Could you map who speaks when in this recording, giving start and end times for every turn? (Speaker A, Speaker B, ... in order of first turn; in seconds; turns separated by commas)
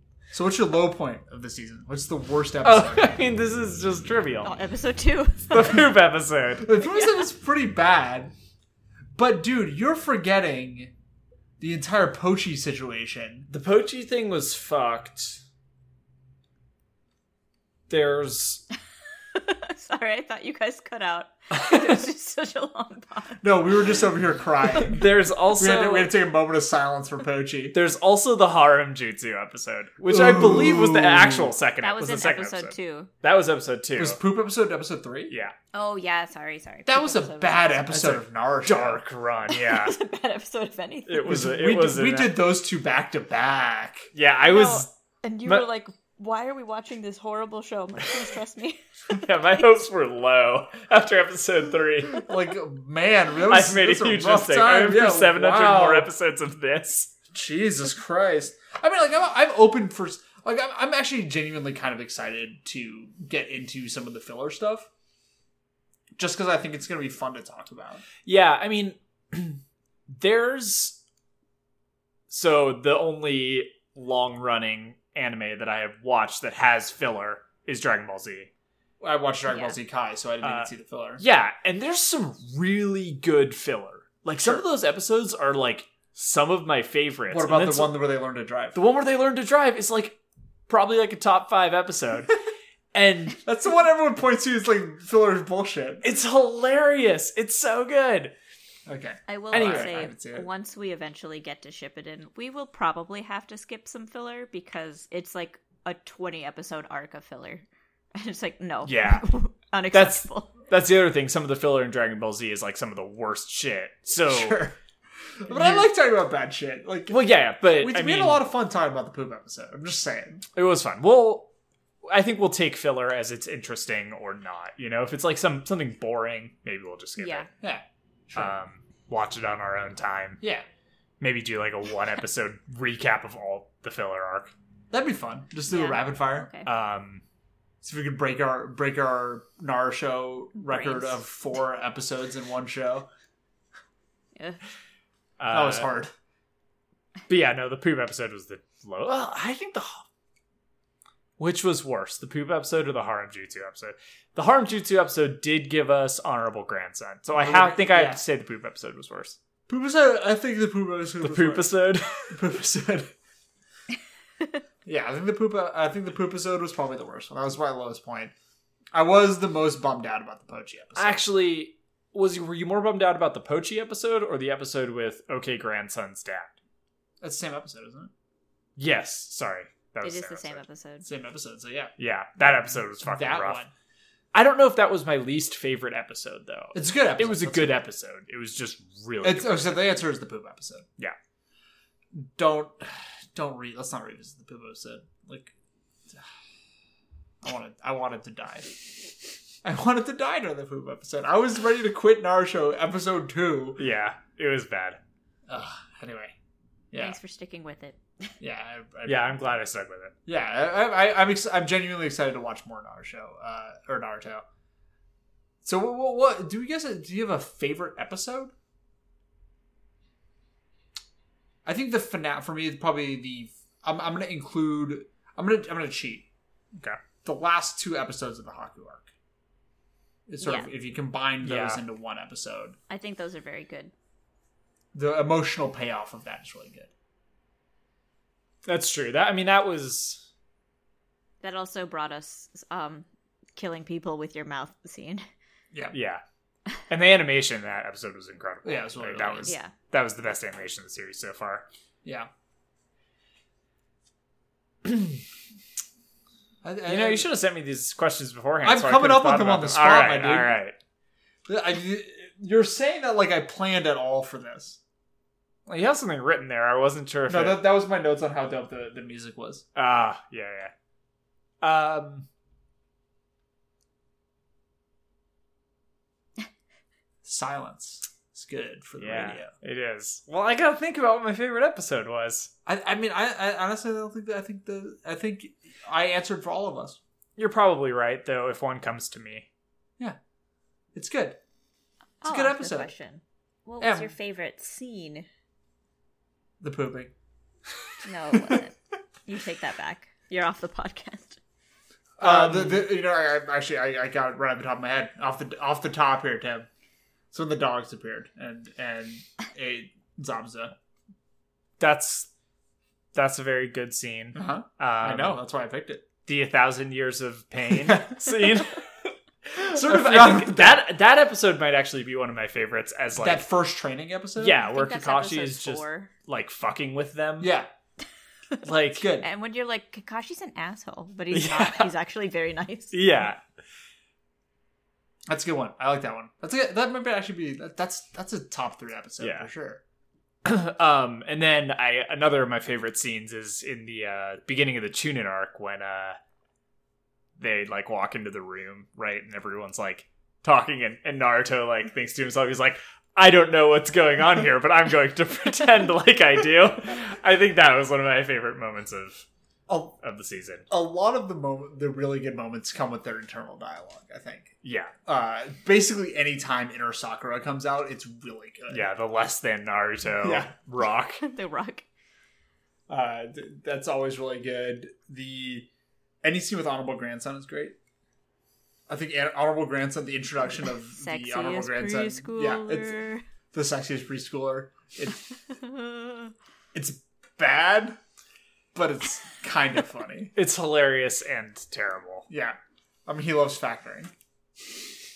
Speaker A: 0.3-3.2, Speaker B: 2.6-4.6, Speaker C: 4.4-5.8, Speaker B: 5.5-6.7, Speaker A: 6.6-8.3, Speaker C: 6.8-7.3, Speaker A: 9.2-10.9, Speaker A: 11.6-13.5, Speaker B: 13.5-15.4, Speaker B: 17.9-18.6, Speaker C: 19.4-23.4, Speaker A: 23.4-27.8, Speaker B: 24.7-26.1, Speaker B: 27.7-34.2, Speaker A: 30.1-31.5, Speaker C: 31.8-33.1, Speaker A: 34.0-35.4, Speaker B: 35.3-35.6, Speaker C: 35.7-37.9, Speaker A: 36.9-39.0, Speaker B: 37.9-40.0, Speaker C: 39.5-41.3, Speaker B: 41.1-42.4, Speaker A: 41.2-44.1, Speaker B: 44.1-44.9, Speaker C: 44.4-49.7, Speaker B: 49.1-52.3, Speaker A: 52.1-56.1, Speaker B: 53.5-57.1, Speaker A: 57.3-64.9, Speaker A: 66.2-68.0, Speaker B: 68.2-71.0, Speaker B: 72.3-78.5, Speaker A: 79.0-81.2, Speaker C: 79.5-79.8, Speaker B: 80.4-88.0, Speaker A: 84.4-84.6, Speaker A: 87.3-88.8, Speaker B: 88.7-92.3, Speaker B: 92.9-93.4, Speaker A: 93.5-96.0, Speaker B: 96.0-98.3, Speaker A: 98.9-100.5, Speaker C: 99.3-110.6, Speaker B: 99.5-100.0, Speaker B: 108.8-109.2, Speaker B: 109.9-114.6, Speaker A: 114.3-114.8, Speaker A: 115.4-120.5, Speaker B: 115.5-115.9, Speaker B: 117.1-118.4, Speaker B: 120.5-121.5, Speaker B: 122.0-127.5, Speaker C: 127.2-127.5, Speaker A: 127.6-128.6, Speaker B: 128.4-130.4, Speaker B: 131.2-134.5, Speaker A: 134.9-136.5, Speaker C: 135.7-136.7, Speaker B: 136.7-137.2, Speaker A: 137.8-143.1, Speaker C: 140.6-141.2, Speaker B: 145.4-145.9, Speaker A: 145.5-146.1, Speaker B: 147.3-150.1, Speaker B: 151.4-159.4, Speaker A: 157.4-158.2, Speaker A: 159.7-163.1, Speaker B: 161.2-162.4, Speaker A: 164.8-168.3, Speaker A: 168.9-171.2, Speaker B: 170.9-176.5, Speaker A: 177.2-178.1, Speaker B: 178.8-180.6, Speaker C: 180.0-181.1, Speaker A: 181.0-181.9, Speaker B: 182.0-183.6, Speaker A: 183.0-183.7, Speaker B: 184.3-189.8, Speaker A: 186.7-187.8, Speaker A: 189.2-190.9, Speaker A: 192.1-195.5, Speaker A: 197.4-198.8, Speaker A: 199.6-203.8, Speaker B: 203.8-205.0, Speaker A: 205.5-206.3, Speaker A: 206.9-207.2, Speaker C: 206.9-208.3, Speaker A: 208.4-209.4, Speaker B: 209.1-210.2, Speaker A: 210.3-214.4, Speaker A: 215.6-218.5, Speaker A: 221.7-226.3, Speaker A: 227.2-229.1, Speaker A: 230.3-232.8, Speaker C: 230.4-230.7, Speaker B: 231.4-231.8, Speaker C: 232.9-233.9, Speaker A: 234.9-236.9, Speaker B: 238.6-240.3, Speaker C: 241.4-245.2, Speaker B: 245.9-246.2, Speaker B: 246.9-251.7, Speaker A: 248.6-249.6, Speaker C: 249.4-249.7, Speaker A: 252.0-252.3, Speaker B: 254.8-255.2, Speaker A: 256.6-257.3, Speaker B: 256.9-260.8, Speaker A: 258.6-260.6, Speaker A: 261.5-264.8, Speaker B: 265.7-267.6, Speaker A: 267.3-269.6, Speaker B: 269.8-270.7, Speaker B: 271.6-272.3, Speaker A: 277.2-279.5, Speaker B: 279.0-282.5, Speaker A: 282.7-287.0, Speaker B: 287.4-289.5, Speaker A: 290.9-291.4, Speaker C: 292.2-295.3, Speaker A: 292.2-292.9, Speaker A: 293.8-294.1, Speaker A: 296.6-297.1, Speaker C: 298.0-298.8, Speaker C: 299.3-301.4, Speaker A: 302.2-306.7, Speaker B: 302.2-302.9, Speaker A: 307.3-310.8, Speaker B: 311.8-312.3, Speaker B: 313.1-315.4, Speaker A: 314.4-316.0, Speaker B: 316.3-318.9, Speaker A: 317.9-318.3, Speaker B: 319.5-323.4, Speaker A: 319.6-320.9, Speaker A: 323.2-324.6, Speaker B: 324.4-327.5, Speaker C: 324.6-326.1, Speaker A: 327.4-327.7, Speaker B: 328.6-329.1, Speaker A: 328.9-329.3, Speaker C: 329.2-333.0, Speaker B: 331.3-331.9, Speaker B: 332.9-333.4, Speaker A: 335.3-339.8, Speaker B: 339.2-339.5, Speaker B: 340.4-346.2, Speaker B: 347.4-359.3, Speaker A: 359.7-360.0, Speaker B: 360.0-360.7, Speaker A: 360.7-364.5, Speaker B: 364.6-364.9, Speaker A: 365.1-368.9, Speaker B: 368.7-371.2, Speaker A: 370.2-370.5, Speaker C: 371.0-371.9, Speaker A: 372.9-375.7, Speaker A: 376.2-377.8, Speaker A: 378.9-383.0, Speaker C: 380.9-383.3, Speaker A: 383.5-385.3, Speaker C: 385.6-386.3, Speaker A: 386.7-388.0, Speaker A: 388.7-390.3, Speaker B: 390.4-392.3, Speaker A: 392.3-394.1